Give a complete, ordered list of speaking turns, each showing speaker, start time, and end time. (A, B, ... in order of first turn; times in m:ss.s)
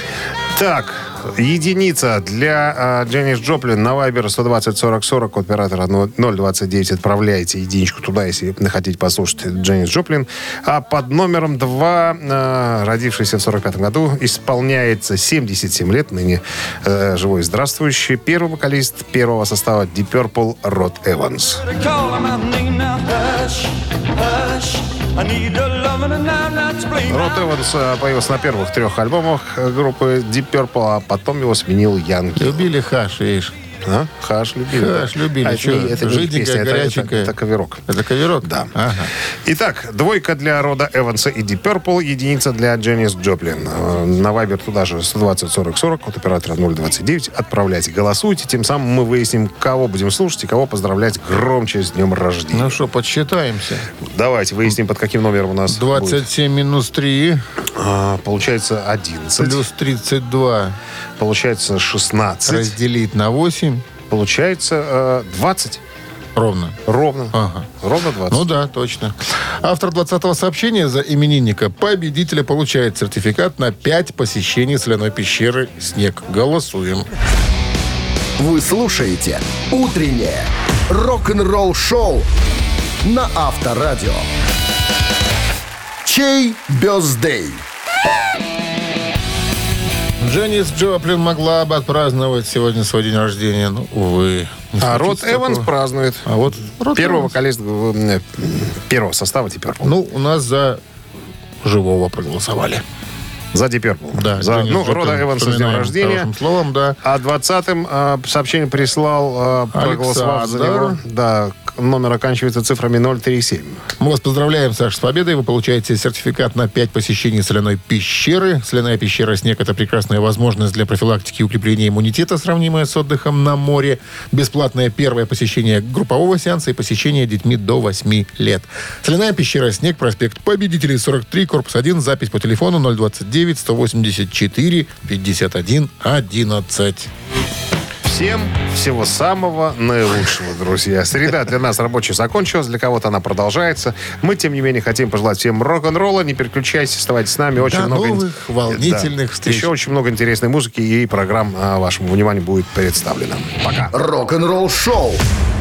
0:00.5-0:21.6 A
0:21.6-0:27.3 B
0:27.0-0:32.7 A
0:32.4-0:33.5 C
0:33.8-0:37.8 A
0:34.7-0:37.3 C
0:37.9-0:39.1 C
0:38.4-0:38.7 A
0:39.4-0:52.8 A
0:52.5-0:53.9 C
0:54.1-0:56.2 A
0:55.7-0:57.4 C
0:57.8-0:59.6 A
0:59.4-1:00.8 C
1:01.2-1:02.8 A
1:02.4-1:03.8 C
1:04.1-1:05.8 A
1:06.4-1:06.8 C
1:06.8-1:08.4 A
1:07.3-1:07.7 C
1:08.3-1:17.1 C
1:18.4-1:22.3 D
1:23.0-1:24.3 D
1:26.0-1:27.6 D
1:30.2-1:35.7 C
1:34.8-1:36.3 A
1:36.2-1:37.3 C
1:36.9-1:39.9 A
1:39.8-1:40.8 C
1:41.6-1:42.8 C
1:43.5-1:46.3 A
1:44.1-1:47.0 C
1:47.0-1:53.8 A
1:49.7-1:51.0 C
1:54.0-2:17.1 C
2:18.0-2:33.9 A
2:27.6-2:29.7 C
2:33.9-2:35.2 D